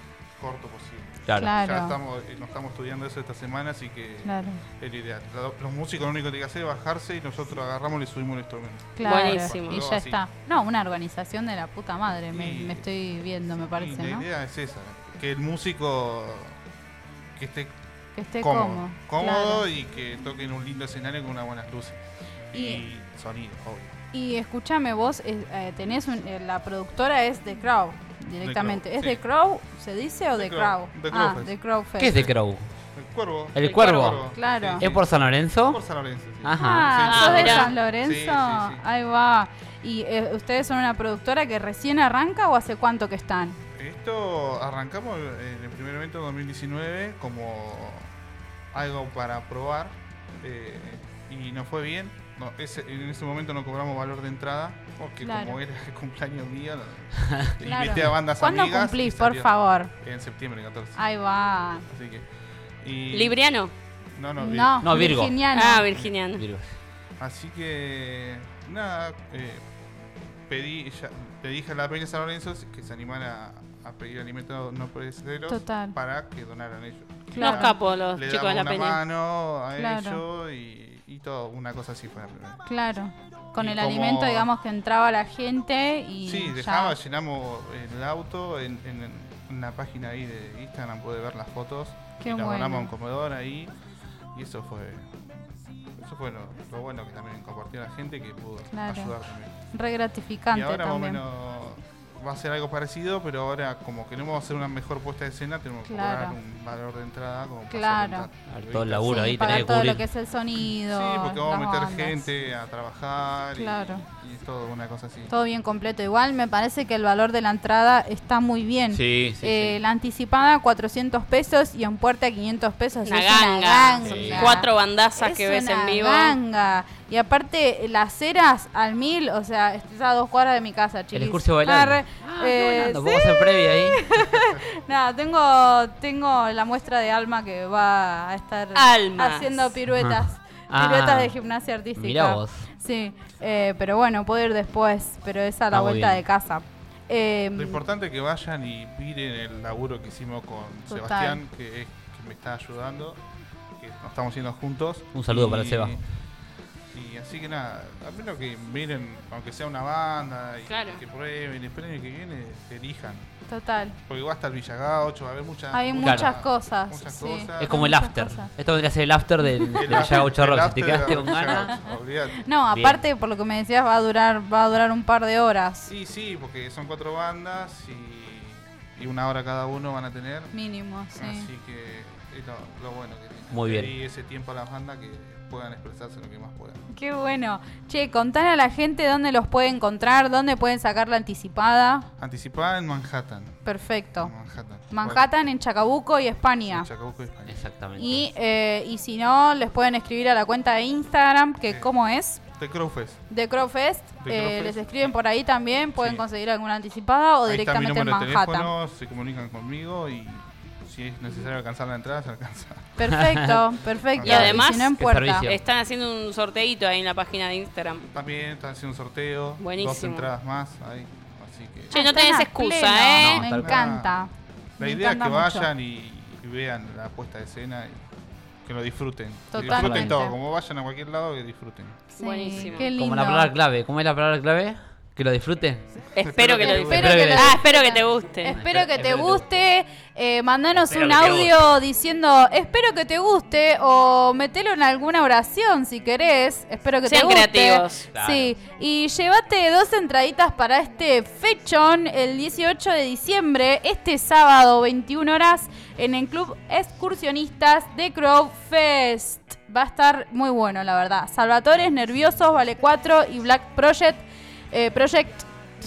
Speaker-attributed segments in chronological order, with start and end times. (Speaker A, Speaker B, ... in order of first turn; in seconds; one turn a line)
Speaker A: 0.4-10.2
Speaker B: 1.2-1.5
Speaker C: 1.4-1.9
Speaker C: 4.2-4.6
Speaker C: 8.9-14.2
Speaker D: 9.0-9.8
Speaker A: 12.3-12.9
Speaker A: 13.6-16.6
Speaker A: 17.4-17.7
Speaker C: 18.1-19.6
Speaker A: 18.4-23.9
Speaker C: 22.5-22.8
Speaker C: 24.1-32.2
Speaker A: 28.4-29.2
Speaker A: 30.3-31.5
Speaker B: 32.0-32.7
Speaker A: 32.1-32.3
Speaker A: 32.9-38.8
Speaker B: 33.5-34.2
Speaker C: 34.3-34.8
Speaker B: 34.8-35.8
Speaker B: 36.4-37.0
Speaker C: 36.6-43.6
Speaker D: 37.1-37.7
Speaker A: 43.7-48.1
Speaker A: 48.7-61.0
Speaker C: 55.2-55.6
Speaker C: 57.6-59.9
Speaker C: 61.0-61.9
Speaker A: 61.8-62.2
Speaker A: 62.8-63.4
Speaker D: 63.1-63.7
Speaker A: 64.1-65.3
Speaker C: 64.4-65.9
Speaker B: 64.8-65.3
Speaker D: 65.5-66.4
Speaker B: 66.3-66.7
Speaker A: 67.2-69.6
Speaker A: 70.5-82.6
Speaker C: 75.5-75.9
Speaker C: 77.3-77.7
Speaker D: 77.3-79.0
Speaker C: 79.8-80.2
Speaker C: 82.7-87.0
Speaker A: 83.6-84.5
Speaker A: 86.2-93.7
Speaker C: 92.2-92.9
Speaker A: 94.3-95.2
Speaker A: 96.0-99.5
Speaker C: 98.7-99.1
Speaker C: 99.7-101.2
Speaker A: 100.5-109.8
Speaker C: 105.8-106.3
Speaker C: 107.7-108.3
Speaker B: 108.5-110.0
Speaker C: 109.0-112.3
Speaker A: 110.6-115.3
Speaker C: 113.5-114.0
Speaker C: 115.3-147.8
Speaker B: 118.9-119.8
Speaker D: 123.0-126.4
Speaker B: 124.0-124.5
Speaker B: 131.1-134.0
Speaker D: 138.7-139.7
Speaker B: 139.9-141.3
Speaker B: 141.9-142.6
Speaker B: 145.7-146.2
Speaker A: 147.6-153.2
Speaker C: 150.9-151.4
Speaker A: 153.8-156.0
Speaker B: 155.1-156.0
Speaker A: 156.9-163.3
Speaker D: 160.7-161.0
Speaker C: 163.5-164.0
Speaker A: 164.1-167.8
Speaker C: 165.7-168.5
Speaker B: 166.0-166.3
Speaker B: 167.6-171.7
Speaker C: 169.4-170.2
Speaker A: 169.7-172.4
Speaker C: 171.3-171.8
Speaker C: 172.4-175.9
Speaker B: 172.7-173.0
Speaker A: 175.9-180.5
Speaker C: 180.5-181.5
Speaker A: 181.1-186.8
Speaker B: 183.5-183.9
Speaker C: 186.9-192.1
Speaker A: 192.2-193.6
Speaker C: 193.6-194.3
Speaker A: 194.2-195.3
Speaker C: 194.9-196.9
Speaker A: 196.7-197.6
Speaker B: 197.5-198.3
Speaker C: 198.0-202.4
Speaker A: 201.7-201.9
Speaker A: 202.6-203.2
Speaker C: 203.3-208.7
Speaker A: 204.2-205.1
Speaker A: 206.0-206.2
Speaker A: 207.5-213.0
Speaker C: 213.0-215.5
Speaker A: 214.1-214.5
Speaker B: 214.2-215.6
Speaker D: 214.2-218.1
Speaker A: 218.1-222.0
Speaker D: 219.6-220.3
Speaker C: 221.9-225.7
Speaker D: 221.9-223.4
Speaker B: 223.2-223.8
Speaker A: 223.4-224.2
Speaker A: 224.8-228.0
Speaker A: 228.7-232.0
Speaker C: 229.5-230.3
Speaker B: 229.6-230.2
Speaker D: 232.2-232.9
Speaker C: 232.2-233.5
Speaker B: 232.9-235.8
Speaker D: 236.1-238.6
Speaker A: 236.2-237.1
Speaker C: 236.6-265.5
Speaker B: 236.9-237.6
Speaker B: 238.4-239.4
Speaker B: 240.8-241.5
Speaker D: 247.0-248.1
Speaker B: 248.1-248.5